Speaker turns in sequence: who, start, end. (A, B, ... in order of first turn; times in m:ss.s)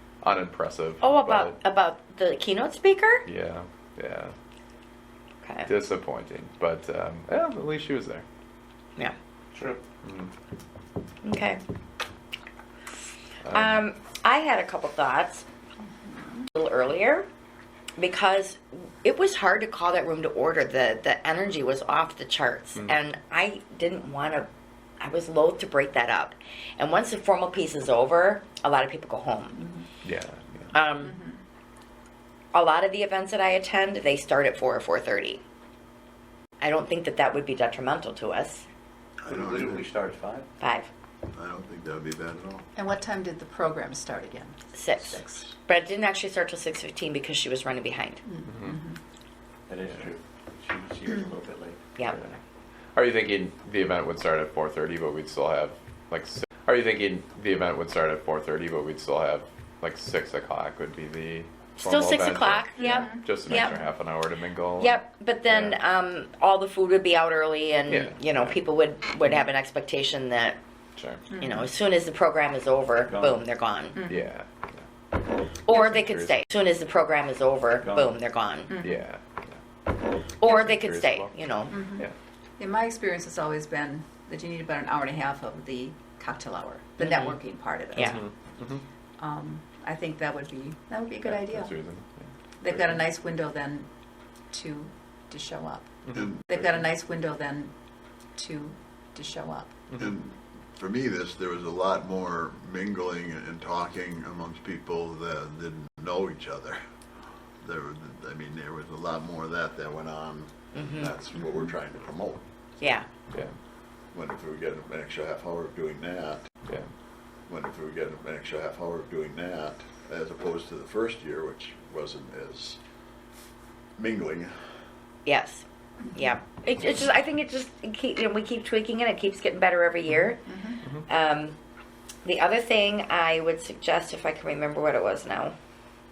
0:00.2-0:01.6 A
0:01.0-0:03.2 B
0:03.2-0:04.3 A
0:05.4-0:05.7 B
0:05.6-0:08.2 A
0:09.5-0:09.8 C
0:10.0-0:10.3 A
0:11.2-0:11.6 B
0:13.4-0:13.8 A
0:13.5-0:15.4 B
0:16.1-0:16.4 D
0:16.5-0:17.2 B
0:18.0-0:24.5 B
0:25.0-0:29.6 B
0:29.6-0:29.8 D
0:30.0-0:30.7 A
0:30.7-0:31.2 B
0:31.0-0:31.4 D
0:32.5-0:35.4 B
0:36.6-0:38.6 B
0:39.2-0:39.9 E
0:39.3-0:40.5 C
0:40.6-0:40.9 B
0:41.3-0:42.7 E
0:42.8-0:45.5 D
0:44.7-0:48.2 B
0:48.2-0:49.0 D
0:48.5-0:48.8 A
0:49.7-0:51.9 C
0:52.9-1:05.8 A
1:01.8-1:03.8 B
1:02.8-1:03.8 D
1:04.8-1:10.6 B
1:07.9-1:08.6 A
1:11.0-1:11.3 A
1:11.3-1:11.7 D
1:11.4-1:14.0 B
1:13.0-1:13.4 C
1:13.9-1:14.3 D
1:14.0-1:14.8 A
1:15.6-1:18.8 B
1:15.7-1:16.4 A
1:17.8-1:18.1 C
1:18.7-1:19.0 D
1:18.8-1:19.6 A
1:20.4-1:21.8 B
1:20.4-1:21.3 A
1:21.7-1:22.0 D
1:22.6-1:28.2 D
1:27.0-1:27.3 B
1:27.9-1:28.2 B
1:28.0-1:28.8 A
1:29.2-1:31.7 D
1:31.2-1:33.0 A
1:32.6-1:33.9 D
1:34.5-1:37.7 D
1:36.1-1:36.7 E
1:38.4-1:39.7 D
1:40.0-1:46.8 E
1:47.6-1:52.4 E
1:50.7-1:51.1 B
1:52.8-1:53.0 B
1:54.1-1:56.4 E
1:57.5-2:02.8 E
2:04.0-2:04.5 E
2:05.2-2:10.5 B
2:10.5-2:10.8 D
2:11.0-2:11.6 B
2:12.2-2:15.6 B